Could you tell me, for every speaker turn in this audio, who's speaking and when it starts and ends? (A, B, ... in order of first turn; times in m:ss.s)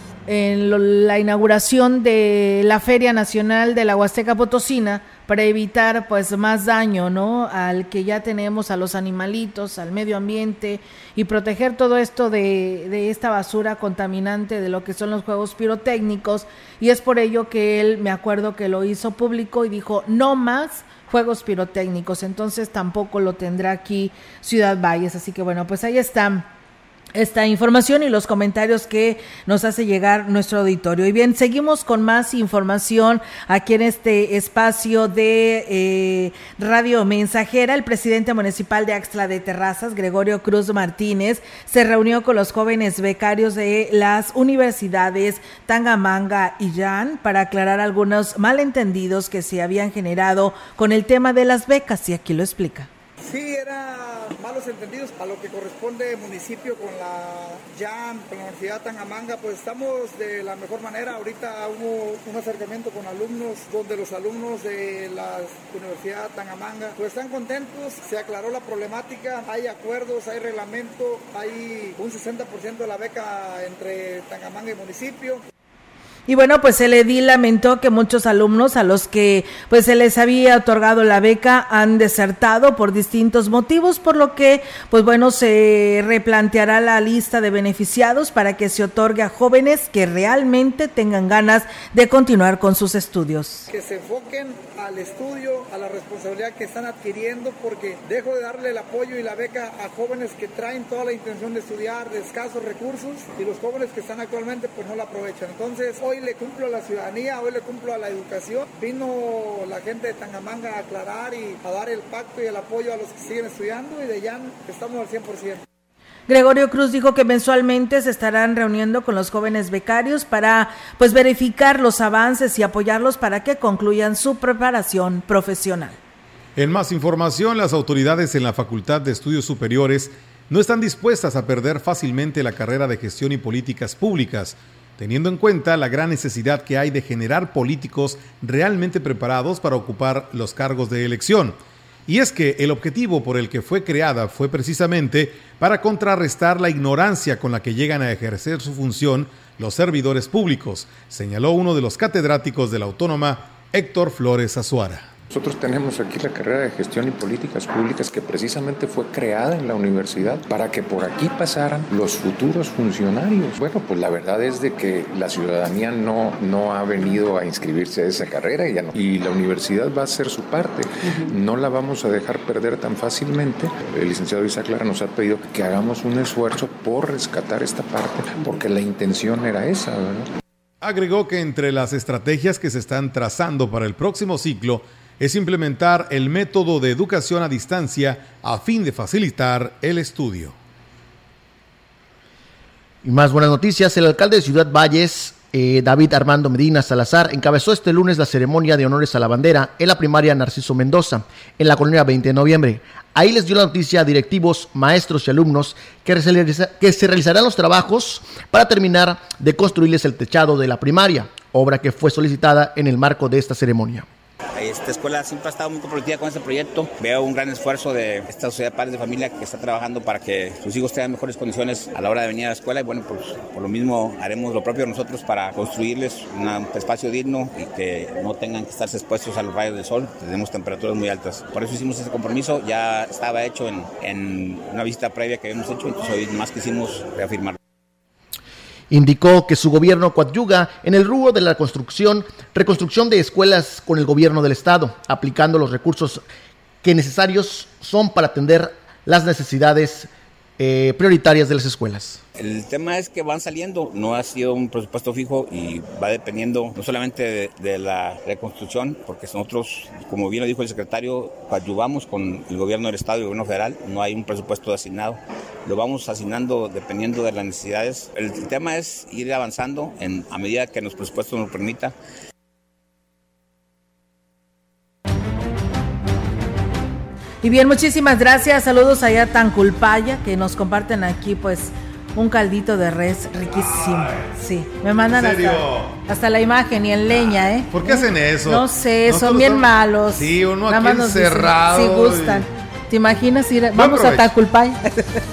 0:00.3-0:26.5 A
0:27.1-0:52.9 A
0:53.2-1:15.4 B
1:16.3-1:33.7 A
1:33.7-1:55.6 B
1:56.3-2:06.0 A
2:06.6-2:35.1 C
2:35.3-3:00.3 D
3:00.8-3:10.5 C
3:13.0-3:34.1 E
3:34.6-3:57.6 F
3:58.9-4:06.2 E
4:06.8-4:12.2 E
4:12.4-4:31.9 F
4:37.4-4:55.2 A
4:45.1-4:46.0 C
4:47.7-4:52.4 C
4:53.7-4:54.3 C